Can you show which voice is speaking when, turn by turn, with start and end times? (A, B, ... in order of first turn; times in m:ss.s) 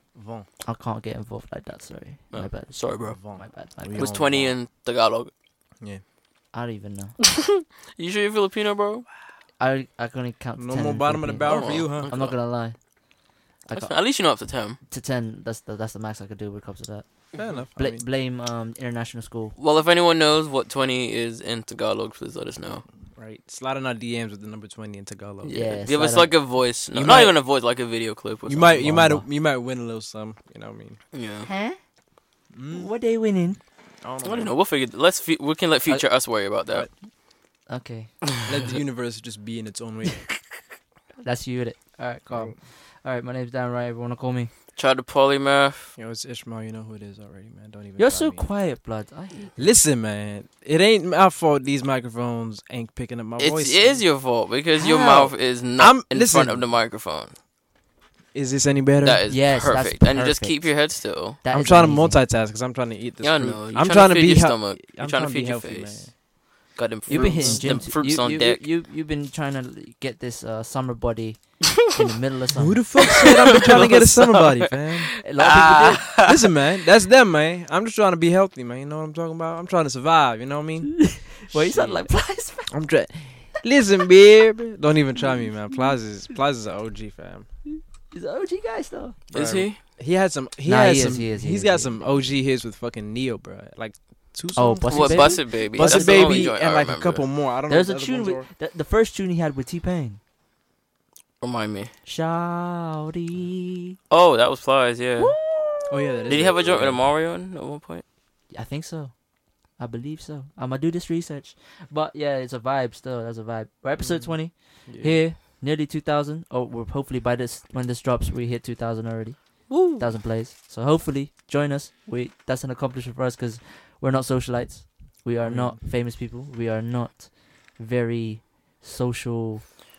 0:00.1-0:00.5 A
0:00.6-0:04.2 B
0:02.3-0:03.2 C
0:03.1-0:04.6 A
0:03.9-0:05.3 C
0:06.5-0:07.2 B
0:07.3-0:09.1 C
0:09.6-0:13.0 B
0:10.6-0:12.3 A
0:11.5-0:12.3 C
0:13.6-0:14.1 B
0:13.7-0:14.8 C
0:14.8-0:19.6 B
0:17.3-0:18.0 A
0:19.6-0:22.8 C
0:23.2-0:25.6 A
0:25.4-0:28.8 C
0:25.5-0:26.3 B
0:26.9-0:27.4 A
0:28.5-0:31.0 A
0:28.8-0:29.3 B
0:31.1-0:31.5 C
0:31.4-0:31.8 B
0:32.5-0:32.9 A
0:32.7-0:33.6 B
0:34.0-0:34.5 A
0:34.2-0:36.9 C
0:37.7-0:38.3 B
0:38.5-0:40.2 A
0:41.2-0:44.5 B
0:42.3-0:42.6 A
0:44.8-0:45.9 C
0:46.0-0:48.5 A
0:48.0-0:49.6 B
0:49.6-0:54.0 A
0:53.4-0:57.4 C
0:54.8-0:55.3 B
0:55.8-0:56.7 A
0:58.3-0:59.2 A
0:59.0-1:01.4 C
0:59.3-1:02.2 B
1:01.5-1:06.1 A
1:03.2-1:06.2 C
1:06.7-1:08.6 C
1:07.1-1:13.3 B
1:07.1-1:07.9 A
1:12.6-1:15.2 A
1:13.0-1:14.7 C
1:15.2-1:16.1 B
1:15.4-1:16.5 C
1:16.2-1:22.1 A
1:21.0-1:22.8 B
1:22.7-1:27.5 A
1:27.7-1:29.2 B
1:29.3-1:38.5 A
1:29.3-1:29.8 C
1:30.6-1:32.3 B
1:34.5-1:36.5 B
1:34.9-1:37.3 C
1:37.7-1:40.2 B
1:41.4-1:41.9 C
1:42.1-1:44.0 B
1:44.1-1:45.3 C
1:45.2-1:46.5 B
1:45.9-1:47.1 A
1:46.3-1:48.0 C
1:48.5-1:49.2 B
1:49.8-2:09.9 B
1:54.0-1:55.2 A
1:59.7-2:00.1 C
2:05.4-2:05.8 A